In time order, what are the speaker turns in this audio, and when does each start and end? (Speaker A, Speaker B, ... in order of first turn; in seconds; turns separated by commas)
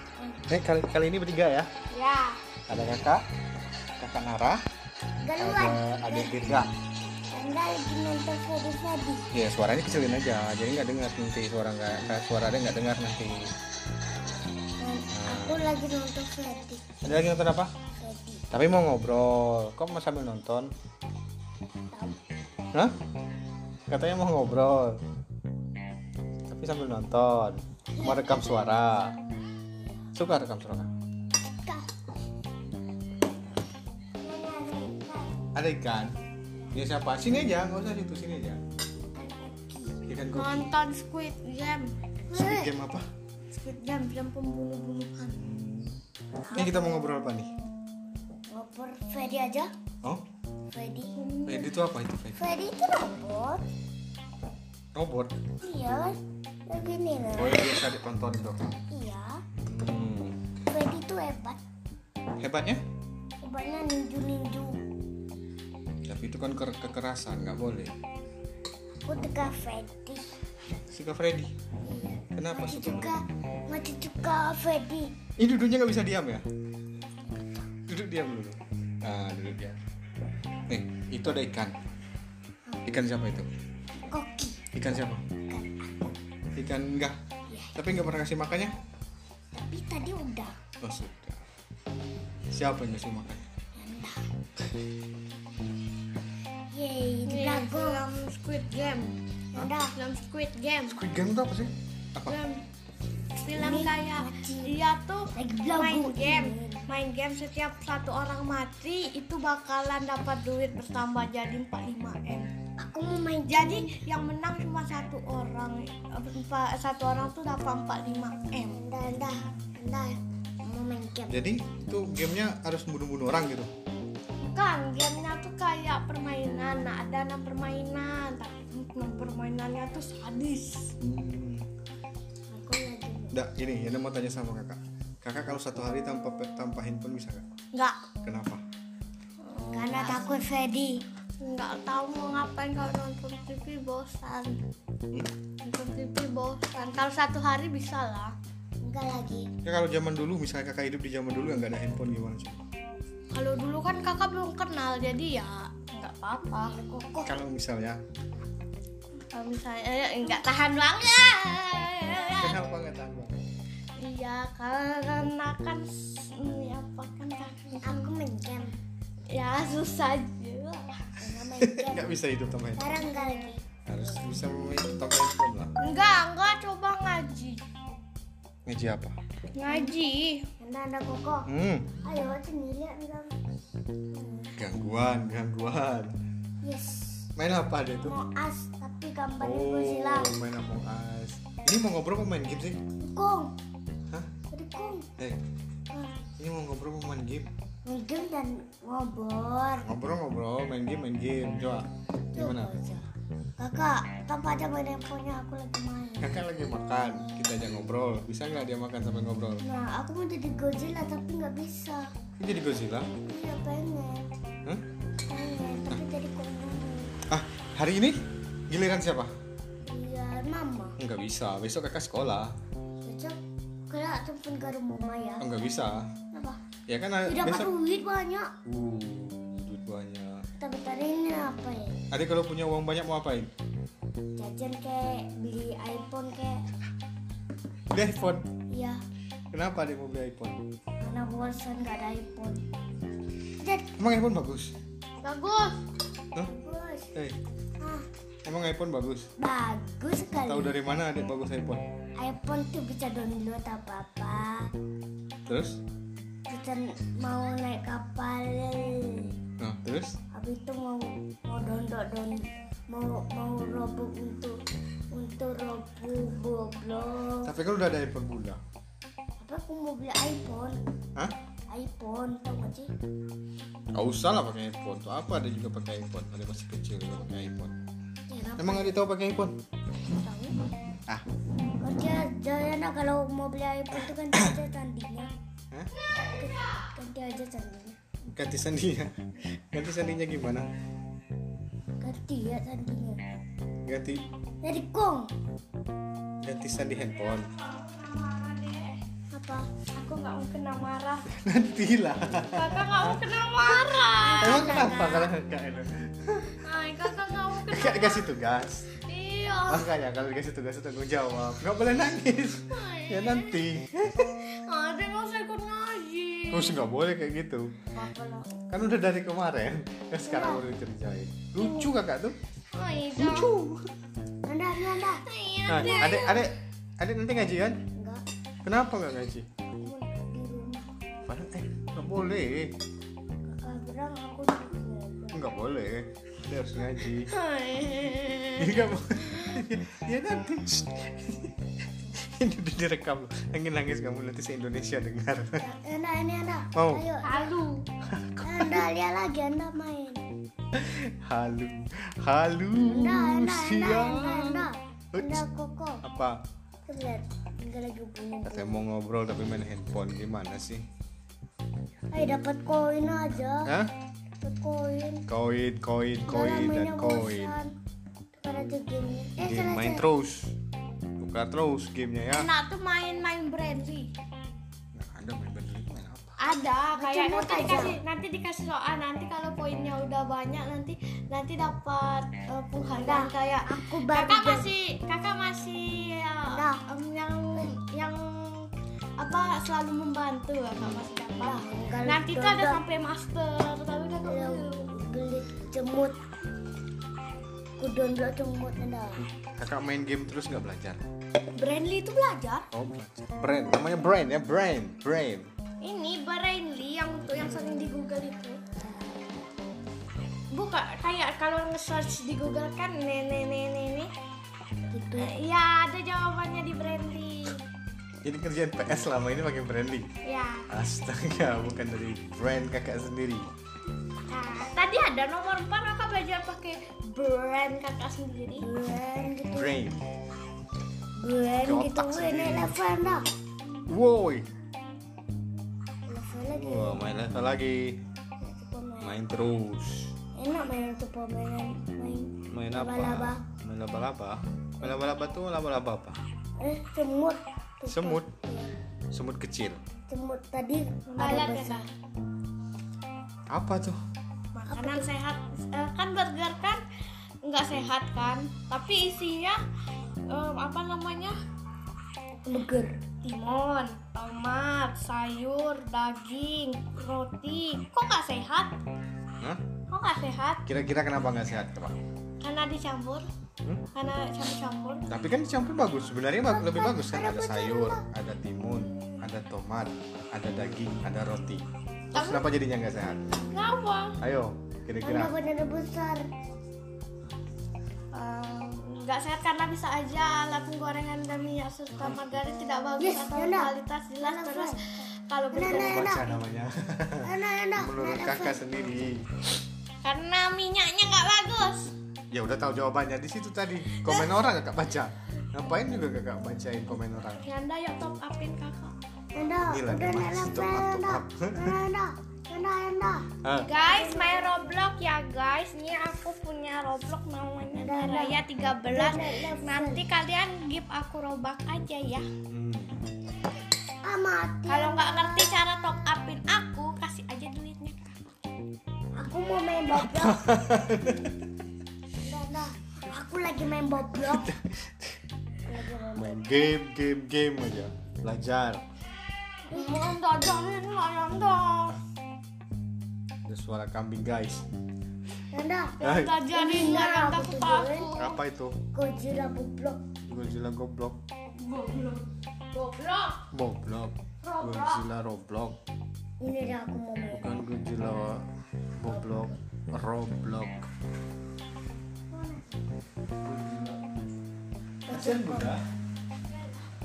Speaker A: 0.5-1.7, Speaker B: 1.9-2.4, Speaker A: 2.7-3.2, Speaker A: 4.0-4.6, Speaker C: 5.2-6.3, Speaker A: 5.4-6.7, Speaker C: 7.3-9.2, Speaker A: 9.3-13.5, Speaker C: 14.8-16.8, Speaker A: 15.1-15.6, Speaker A: 17.0-17.7, Speaker C: 18.0-18.5, Speaker A: 18.5-20.7, Speaker C: 21.9-22.2, Speaker A: 23.9-25.0, Speaker A: 26.5-29.2, Speaker C: 27.9-28.6, Speaker A: 30.1-30.9, Speaker C: 34.2-35.5, Speaker A: 35.5-36.1, Speaker A: 36.7-38.6, Speaker C: 39.1-40.0, Speaker A: 40.1-40.7, Speaker B: 40.3-41.9, Speaker C: 42.3-42.7, Speaker A: 42.3-43.0, Speaker B: 43.5-45.4, Speaker A: 45.3-46.0, Speaker A: 46.5-47.5, Speaker C: 48.5-49.7, Speaker C: 50.7-51.1, Speaker B: 51.2-51.7, Speaker A: 51.5-52.4, Speaker C: 52.4-53.6, Speaker A: 54.9-55.4, Speaker C: 55.6-56.2, Speaker C: 56.7-57.7, Speaker A: 57.4-58.7, Speaker C: 58.9-59.4, Speaker A: 59.6-60.4, Speaker C: 60.7-61.6, Speaker A: 62.4-62.8, Speaker C: 63.4-64.8, Speaker A: 66.1-67.9, Speaker C: 69.1-70.3, Speaker A: 70.9-71.5, Speaker C: 71.9-75.1, Speaker A: 72.3-73.2, Speaker A: 75.4-76.5, Speaker A: 77.9-79.8, Speaker A: 80.7-81.8, Speaker A: 82.8-83.5, Speaker C: 84.1-84.6, Speaker A: 84.7-85.2, Speaker C: 85.5-86.1, Speaker A: 86.6-87.2, Speaker C: 87.5-87.8, Speaker A: 87.8-88.8, Speaker C: 89.5-90.5, Speaker A: 90.8-91.5, Speaker A: 92.5-93.4, Speaker C: 93.8-94.2, Speaker C: 96.7-98.0, Speaker B: 97.3-99.1, Speaker C: 99.5-99.9, Speaker B: 99.9-101.0, Speaker A: 100.9-102.4, Speaker B: 102.3-102.6, Speaker B: 103.4-112.5, Speaker C: 103.5-104.8, Speaker C: 105.3-106.9, Speaker C: 112.8-114.0, Speaker B: 113.5-118.8, Speaker C: 118.7-121.4, Speaker A: 121.3-123.7, Speaker B: 124.4-130.9, Speaker A: 131.0-131.7, Speaker C: 132.5-133.4, Speaker A: 133.3-137.5, Speaker B: 137.7-138.0, Speaker A: 138.2-138.6, Speaker B: 139.4-140.3, Speaker C: 139.7-141.0, Speaker B: 141.4-144.6, Speaker B: 145.6-148.3, Speaker C: 148.8-149.5, Speaker A: 149.7-152.6, Speaker B: 153.3-156.7, Speaker C: 156.7-157.4, Speaker A: 157.2-158.0, Speaker B: 159.3-162.6, Speaker A: 162.4-163.4, Speaker B: 164.0-168.1, Speaker C: 167.8-168.7, Speaker B: 169.3-171.1, Speaker C: 171.2-172.2, Speaker A: 171.6-173.0, Speaker C: 172.8-173.6, Speaker A: 173.9-175.7, Speaker B: 175.8-177.6, Speaker A: 178.7-179.2, Speaker B: 179.6-180.4, Speaker C: 179.7-180.0, Speaker C: 180.6-181.5, Speaker A: 181.5-181.9, Speaker C: 182.0-183.3, Speaker C: 184.1-184.5, Speaker A: 184.6-186.2, Speaker C: 186.6-187.3, Speaker A: 187.4-188.2, Speaker C: 188.0-190.4, Speaker A: 189.4-192.8, Speaker C: 193.0-193.5, Speaker C: 194.5-195.1, Speaker A: 196.4-197.5, Speaker C: 197.9-199.9, Speaker A: 199.8-202.8, Speaker C: 202.3-203.0, Speaker C: 203.6-206.4, Speaker A: 206.2-209.6, Speaker C: 209.6-212.1, Speaker A: 212.4-213.1, Speaker C: 213.3-214.3, Speaker C: 215.3-217.1, Speaker A: 217.3-219.3, Speaker C: 219.8-221.0, Speaker A: 221.0-222.6, Speaker C: 223.0-225.5, Speaker A: 225.4-226.1, Speaker C: 226.3-226.6, Speaker A: 226.9-227.7, Speaker C: 227.2-228.5, Speaker A: 228.7-230.4, Speaker C: 230.6-232.0, Speaker A: 232.1-233.5, Speaker C: 234.4-236.6, Speaker A: 237.9-238.5, Speaker C: 238.7-239.0, Speaker A: 239.5-240.6, Speaker C: 241.0-242.6, Speaker C: 243.6-243.9, Speaker A: 244.0-244.8, Speaker B: 245.2-245.8, Speaker C: 246.4-247.1, Speaker A: 248.4-249.3, Speaker C: 249.4-250.7, Speaker A: 250.4-251.8, Speaker C: 252.2-254.7, Speaker A: 255.5-255.8, Speaker C: 256.5-259.3, Speaker A: 259.6-260.2, Speaker C: 260.3-264.5, Speaker C: 265.1-267.5, Speaker A: 267.4-268.6, Speaker C: 269.4-270.8, Speaker C: 271.7-272.9, Speaker A: 273.9-277.8, Speaker C: 278.3-278.9, Speaker A: 278.6-279.6, Speaker B: 280.1-280.7, Speaker C: 281.8-285.3, Speaker C: 286.2-288.0, Speaker A: 288.3-290.7, Speaker C: 292.0-293.2, Speaker A: 293.9-294.2, Speaker C: 294.6-295.3, Speaker A: 296.4-297.5, Speaker B: 297.2-299.0, Speaker C: 299.3-299.7, Speaker B: 299.9-301.3, Speaker A: 301.3-303.3, Speaker B: 302.4-304.9, Speaker C: 304.2-305.3, Speaker A: 304.4-306.6, Speaker B: 306.5-308.3, Speaker A: 307.7-308.9, Speaker B: 309.0-309.9, Speaker A: 309.7-314.4, Speaker B: 312.7-313.6, Speaker B: 314.4-316.7, Speaker A: 316.5-317.7, Speaker B: 317.9-318.5, Speaker A: 318.7-322.4, Speaker C: 320.2-320.6, Speaker B: 322.7-323.6, Speaker A: 323.2-323.9, Speaker C: 324.4-325.2, Speaker B: 325.2-326.5, Speaker A: 325.7-327.8, Speaker C: 327.9-328.2, Speaker A: 328.6-329.5, Speaker C: 329.7-330.9, Speaker A: 331.3-332.8, Speaker C: 333.4-335.5, Speaker A: 335.3-337.3, Speaker B: 337.3-339.6, Speaker A: 338.6-345.6, Speaker C: 345.6-347.5, Speaker A: 346.8-347.1, Speaker B: 347.2-347.9, Speaker A: 348.1-348.9, Speaker C: 348.4-350.2, Speaker A: 350.7-354.5, Speaker C: 352.8-356.0, Speaker A: 355.1-355.4, Speaker A: 356.0-356.4, Speaker C: 356.9-358.7, Speaker A: 358.4-360.9, Speaker C: 362.1-363.7, Speaker A: 363.7-363.9, Speaker C: 364.4-365.3, Speaker A: 365.3-367.6, Speaker C: 366.3-367.7, Speaker C: 368.4-370.1, Speaker A: 369.4-370.6, Speaker A: 371.2-372.5, Speaker B: 372.3-374.1, Speaker A: 374.9-376.4, Speaker B: 376.4-394.9, Speaker C: 377.0-378.0, Speaker C: 382.9-384.7, Speaker C: 386.5-386.8, Speaker A: 390.8-391.0, Speaker C: 391.4-392.8, Speaker C: 394.2-396.2, Speaker C: 397.8-399.3, Speaker A: 399.4-401.0, Speaker B: 401.6-402.7, Speaker A: 402.7-405.5, Speaker B: 405.8-408.6, Speaker B: 410.5-414.1, Speaker C: 414.9-415.3, Speaker B: 415.2-417.6, Speaker A: 418.2-420.1, Speaker B: 420.2-420.7, Speaker A: 420.7-423.5, Speaker B: 424.3-428.6, Speaker C: 428.6-429.8, Speaker A: 429.5-430.0, Speaker C: 431.2-433.3, Speaker A: 431.6-432.8, Speaker A: 433.9-434.5, Speaker C: 436.1-437.0, Speaker A: 436.5-438.0, Speaker C: 438.4-439.2, Speaker A: 439.0-440.1, Speaker C: 440.4-443.4, Speaker A: 442.5-446.2, Speaker C: 446.6-448.7, Speaker A: 447.9-448.3, Speaker A: 449.1-449.8, Speaker C: 450.1-451.9, Speaker B: 451.1-451.9, Speaker A: 453.5-454.0, Speaker B: 454.6-456.8, Speaker C: 454.7-455.1, Speaker B: 457.4-459.6, Speaker B: 460.3-461.4, Speaker C: 462.5-462.9, Speaker B: 463.2-468.8, Speaker B: 469.9-470.6, Speaker A: 470.7-472.0, Speaker B: 472.4-473.2, Speaker B: 473.9-475.1, Speaker A: 475.1-483.4, Speaker C: 476.5-478.1, Speaker B: 482.1-482.5, Speaker B: 483.5-484.2, Speaker A: 484.2-485.3, Speaker C: 485.0-486.2, Speaker B: 488.1-496.1, Speaker C: 493.0-494.9, Speaker C: 495.5-496.3, Speaker A: 495.6-499.3, Speaker C: 497.2-498.8, Speaker B: 500.0-501.9, Speaker A: 502.3-507.4, Speaker B: 503.9-504.5, Speaker B: 507.3-508.9, Speaker C: 509.3-514.8, Speaker A: 509.6-511.8, Speaker A: 513.4-513.7, Speaker B: 513.6-522.3, Speaker C: 517.8-520.0, Speaker A: 522.5-523.0, Speaker C: 524.0-525.5, Speaker B: 524.7-528.1, Speaker C: 529.2-530.5, Speaker A: 530.0-531.5, Speaker C: 532.2-534.5, Speaker C: 535.6-536.5, Speaker A: 536.1-538.8, Speaker B: 539.6-542.0, Speaker A: 543.5-544.7, Speaker C: 545.5-548.1, Speaker B: 546.0-548.4, Speaker A: 546.0-546.4, Speaker A: 548.1-548.8, Speaker C: 548.9-550.0, Speaker A: 550.3-551.2, Speaker B: 551.6-553.4, Speaker A: 553.5-555.8, Speaker B: 554.4-555.0, Speaker C: 556.4-557.5, Speaker A: 557.3-558.4, Speaker A: 559.0-560.9, Speaker C: 559.1-559.6, Speaker C: 562.3-562.6, Speaker A: 563.4-564.0, Speaker C: 565.1-565.8, Speaker A: 565.1-565.8